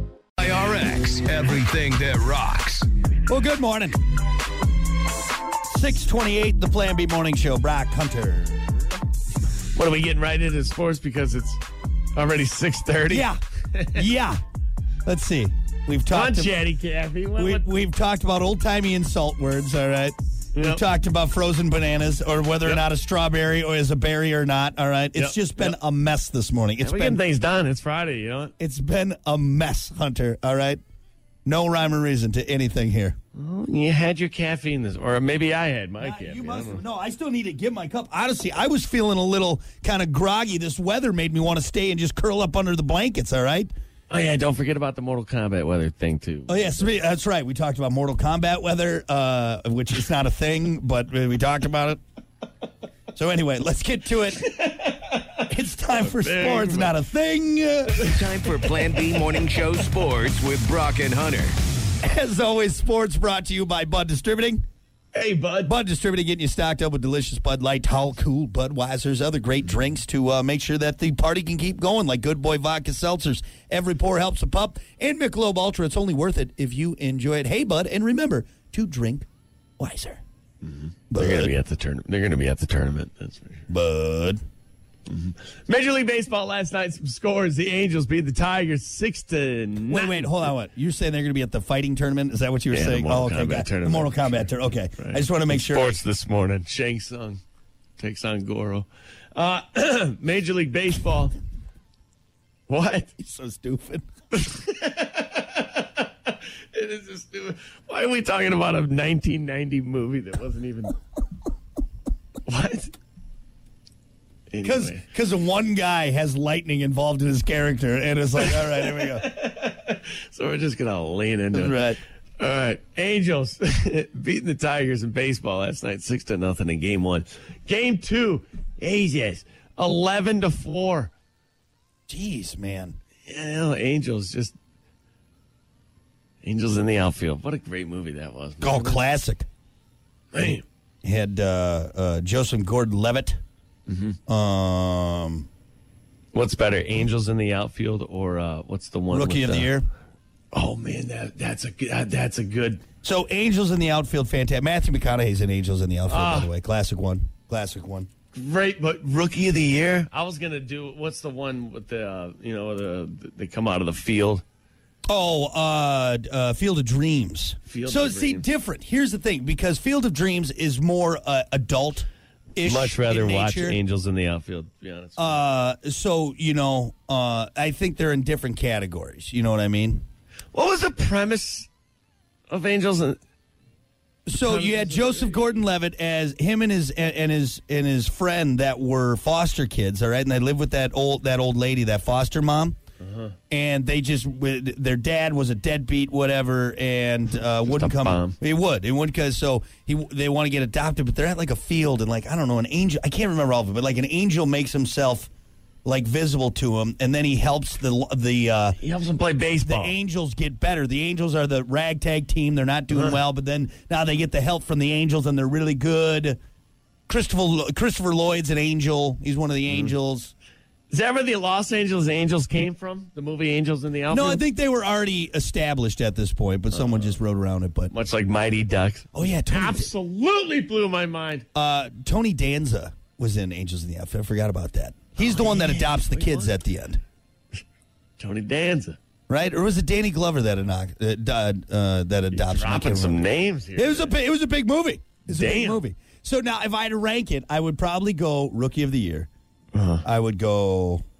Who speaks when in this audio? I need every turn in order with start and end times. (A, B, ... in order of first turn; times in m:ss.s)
0:00.4-0:02.9 A
0:03.3-0:04.0 B
0:05.7-0:08.6 B
0:09.7-0:11.6 C
0:12.1-0:14.0 C
0:13.1-0:13.4 B
0:13.9-0:14.4 B
0:15.0-0:16.6 B
0:16.1-0:17.7 C
0:17.4-0:27.2 B
0:20.5-0:20.8 C
0:25.1-0:25.8 C
0:26.8-0:28.5 C
0:28.6-0:30.8 B
0:31.4-0:33.2 B
0:33.3-0:36.8 C
0:36.0-0:43.7 B
0:44.1-0:47.0 C
0:46.5-0:52.0 B
0:53.1-0:54.4 B
0:54.4-0:56.9 C
0:55.5-0:58.1 B
0:58.0-1:01.6 A
1:02.0-1:04.6 B
1:05.1-1:05.7 C
1:05.6-1:19.2 B
1:19.8-1:20.2 B
1:20.6-1:23.6 C
1:21.1-1:21.5 B
1:23.7-1:24.4 B
1:25.1-1:30.5 C
1:29.9-1:36.0 B
1:32.7-1:37.4 C
1:38.0-1:41.3 C
1:42.7-1:43.1 C
1:43.2-1:44.0 B
1:44.3-1:51.0 C
1:52.5-1:52.9 C
1:54.5-1:55.0 C
1:54.6-1:59.3 B
1:58.4-2:01.8 C
2:01.5-2:02.0 B
2:02.4-2:11.1 C
2:12.1-2:13.0 B
2:13.2-2:14.6 C
2:16.4-2:19.0 C
2:18.6-2:19.5 B
2:20.3-2:20.6 C
2:21.0-2:23.4 B
2:23.9-2:24.2 C
2:24.3-2:25.5 B
2:26.3-2:29.7 C
2:29.1-2:29.9 B
2:30.5-2:32.8 C
2:33.0-2:38.1 B
2:36.1-2:36.5 C
2:38.3-2:44.4 C
2:45.1-2:53.8 B
2:47.7-2:48.4 C
2:52.6-2:55.4 C
2:55.2-3:00.0 B
3:00.5-3:01.7 C
3:02.5-3:03.2 C
3:04.3-3:12.8 B
3:04.3-3:05.5 C
3:13.0-3:13.3 C
3:13.5-3:25.3 B
3:17.6-3:18.4 C
3:25.8-3:28.8 B
3:28.8-3:29.9 C
3:29.6-3:36.4 B
3:32.9-3:33.2 C
3:37.1-3:40.3 B
3:40.9-3:44.4 C
3:44.1-3:47.9 B
3:46.7-3:47.2 C
3:47.9-3:51.4 C
3:49.1-3:49.9 B
3:51.5-3:57.0 B
3:55.2-3:56.5 C
3:58.2-3:59.0 C
3:59.3-4:03.2 B
4:02.3-4:04.1 C
4:03.8-4:09.3 B
4:05.3-4:05.8 C
4:09.7-4:10.0 C
4:10.0-4:11.0 B